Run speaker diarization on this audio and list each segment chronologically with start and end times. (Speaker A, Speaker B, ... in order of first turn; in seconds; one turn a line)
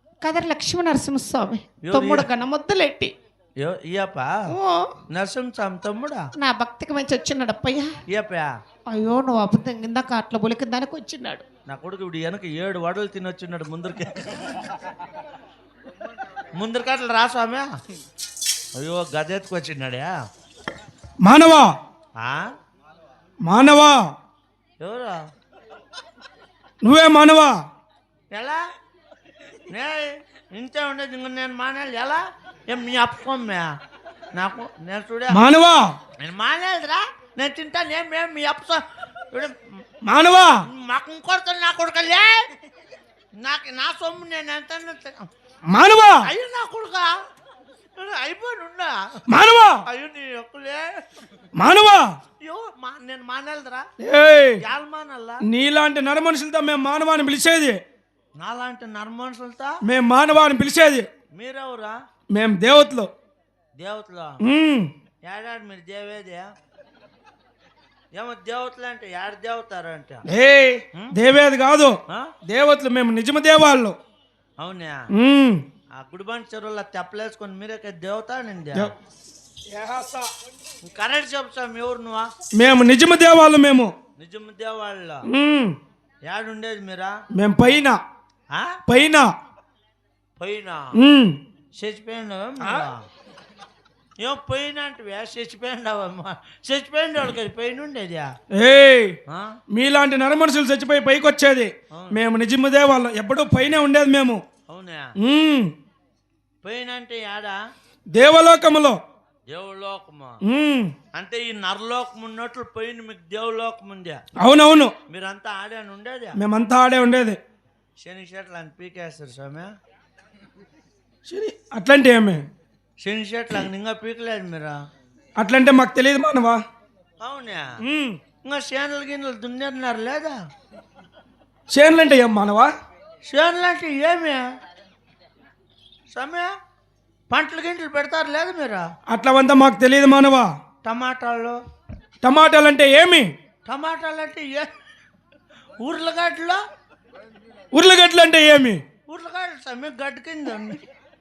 Speaker A: 0.2-3.1
Speaker B: 1.8-2.3
Speaker B: 3.6-4.3
Speaker A: 4.5-4.9
Speaker B: 5.1-6.2
Speaker A: 6.4-7.9
Speaker B: 8.1-8.5
Speaker A: 8.9-11.4
Speaker B: 11.7-14.7
Speaker B: 16.5-17.7
Speaker B: 18.7-20.1
Speaker C: 21.2-21.7
Speaker C: 23.4-24.0
Speaker B: 24.8-25.2
Speaker C: 26.8-27.5
Speaker B: 28.3-28.6
Speaker B: 29.7-33.7
Speaker B: 34.3-35.4
Speaker C: 35.3-35.9
Speaker B: 36.2-39.5
Speaker C: 40.0-40.5
Speaker B: 40.7-42.5
Speaker B: 43.4-45.3
Speaker C: 45.7-46.2
Speaker B: 46.2-47.1
Speaker B: 48.0-49.2
Speaker C: 49.3-49.8
Speaker B: 49.9-50.8
Speaker C: 51.6-52.0
Speaker B: 52.4-53.9
Speaker C: 54.0-54.6
Speaker B: 54.6-55.4
Speaker C: 55.4-57.8
Speaker B: 58.4-59.7
Speaker C: 59.9-61.0
Speaker B: 61.3-61.9
Speaker C: 62.3-63.1
Speaker B: 63.8-64.4
Speaker C: 64.4-64.9
Speaker B: 65.2-66.5
Speaker B: 68.1-70.2
Speaker C: 70.3-71.9
Speaker C: 72.5-73.9
Speaker B: 74.6-75.0
Speaker C: 75.2-75.6
Speaker B: 75.9-78.9
Speaker C: 79.7-80.3
Speaker B: 80.8-82.3
Speaker C: 82.6-83.9
Speaker B: 84.2-85.3
Speaker C: 85.2-85.7
Speaker B: 86.2-87.1
Speaker C: 87.3-88.0
Speaker C: 88.9-89.2
Speaker B: 90.4-90.9
Speaker C: 90.9-91.3
Speaker B: 91.7-93.0
Speaker C: 92.6-92.8
Speaker B: 94.2-98.3
Speaker C: 98.6-99.2
Speaker C: 99.7-104.4
Speaker B: 101.9-102.2
Speaker B: 104.7-105.1
Speaker C: 105.2-105.7
Speaker B: 106.6-107.6
Speaker C: 108.1-109.0
Speaker B: 109.5-110.4
Speaker C: 110.4-110.9
Speaker B: 111.1-114.2
Speaker C: 114.4-114.9
Speaker B: 115.1-116.4
Speaker C: 116.3-117.4
Speaker B: 118.0-119.7
Speaker C: 121.3-122.4
Speaker B: 123.0-124.8
Speaker C: 125.4-126.6
Speaker B: 127.2-127.7
Speaker C: 127.8-128.2
Speaker B: 128.4-130.3
Speaker C: 131.7-132.7
Speaker B: 133.2-134.4
Speaker B: 136.1-136.5
Speaker B: 137.3-138.8
Speaker C: 139.1-140.5
Speaker B: 140.8-141.6
Speaker C: 142.2-143.3
Speaker B: 143.7-144.7
Speaker B: 145.8-146.6
Speaker C: 147.7-148.8
Speaker B: 149.1-150.8